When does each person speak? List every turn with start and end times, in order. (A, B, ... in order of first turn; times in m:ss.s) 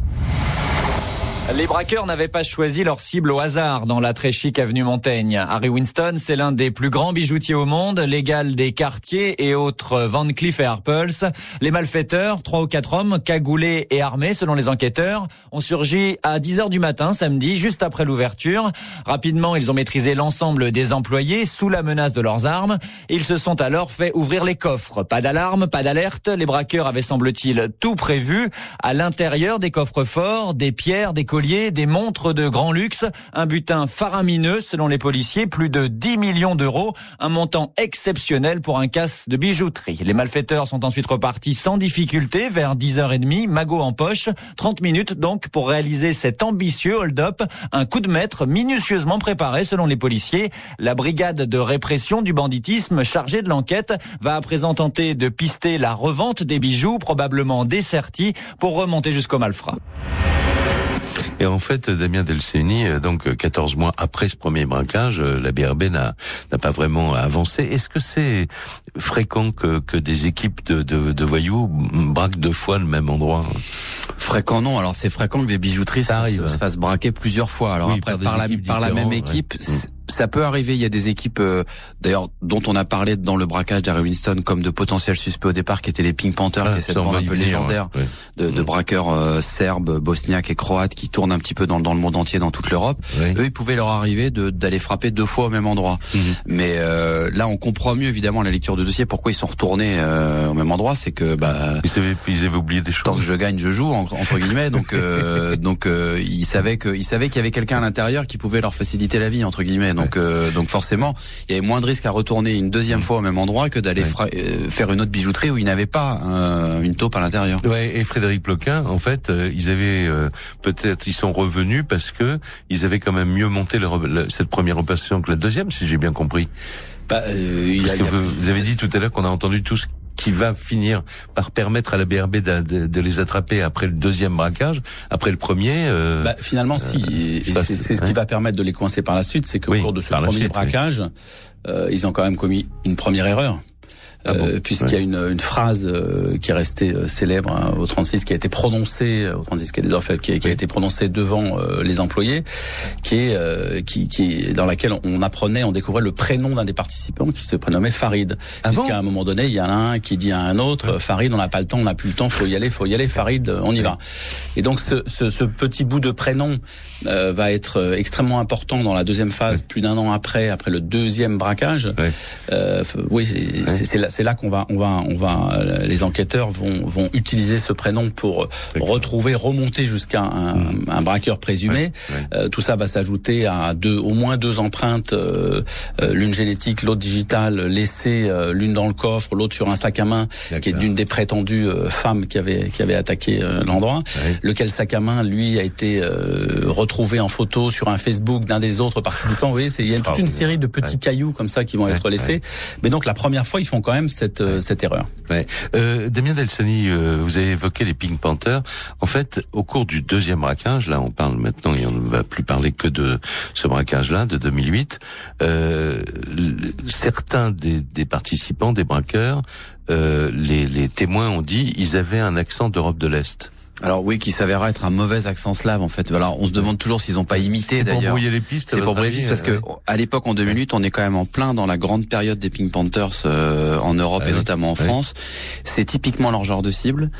0:01.5-0:59.8 A
1:01.4-1:13.6 B
1:14.2-1:41.8 C
1:16.1-1:16.6 B
1:17.8-1:19.8 B
1:26.6-1:28.7 B
1:33.1-1:33.4 B
1:36.1-1:36.4 B
1:41.8-1:43.3 B
1:43.0-1:57.6 C
1:44.3-1:45.2 B
1:57.6-2:06.5 B
2:07.1-2:08.6 D
2:07.8-2:18.1 B
2:16.2-2:21.1 D
2:19.7-2:20.7 B
2:21.6-2:23.6 D
2:24.2-2:32.4 D
2:24.3-2:24.9 B
2:33.0-2:44.0 D
2:38.6-2:39.0 B
2:44.5-3:25.1 D
2:58.8-2:59.0 B
3:01.7-3:02.2 B
3:10.5-3:10.8 B
3:19.8-3:20.5 B
3:21.9-3:22.3 B
3:25.3-3:43.5 B
3:43.8-3:57.1 C
3:47.3-3:49.6 B
3:54.2-3:54.9 B